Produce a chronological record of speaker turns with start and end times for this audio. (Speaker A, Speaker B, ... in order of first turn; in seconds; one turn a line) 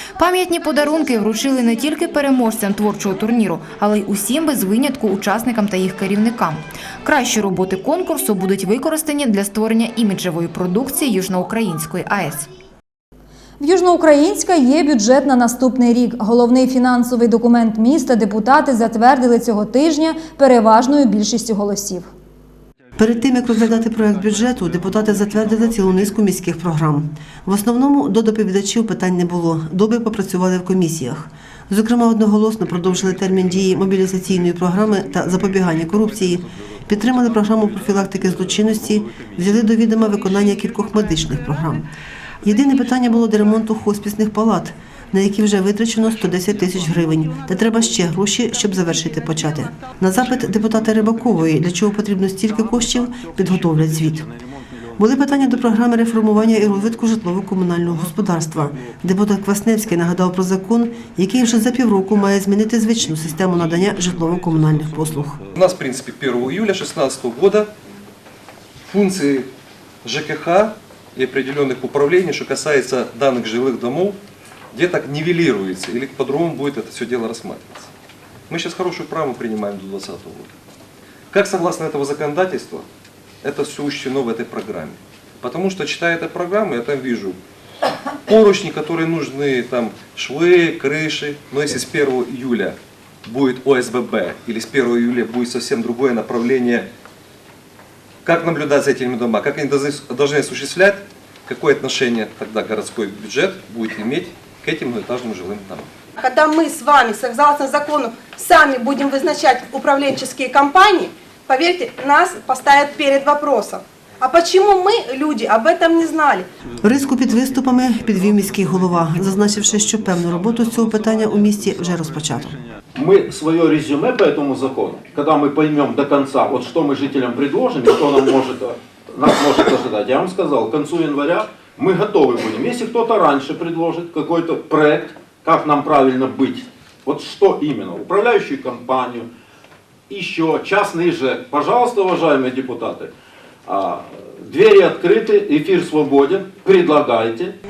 Speaker A: 0.2-12.5
Speaker B: 13.6-22.1
Speaker C: 23.0-41.9
Speaker C: 42.4-54.3
Speaker C: 55.0-65.4
Speaker D: 65.5-67.7
Speaker D: 68.8-69.5
Speaker D: 70.0-74.2
Speaker D: 74.7-77.9
Speaker D: 78.5-80.5
Speaker D: 81.3-82.9
Speaker D: 83.4-87.4
Speaker D: 88.3-96.9
Speaker D: 98.2-105.9
Speaker E: 106.2-116.5
Speaker C: 116.8-122.6
Speaker F: 122.9-139.3
Speaker F: 140.1-143.1
Speaker F: 143.7-147.5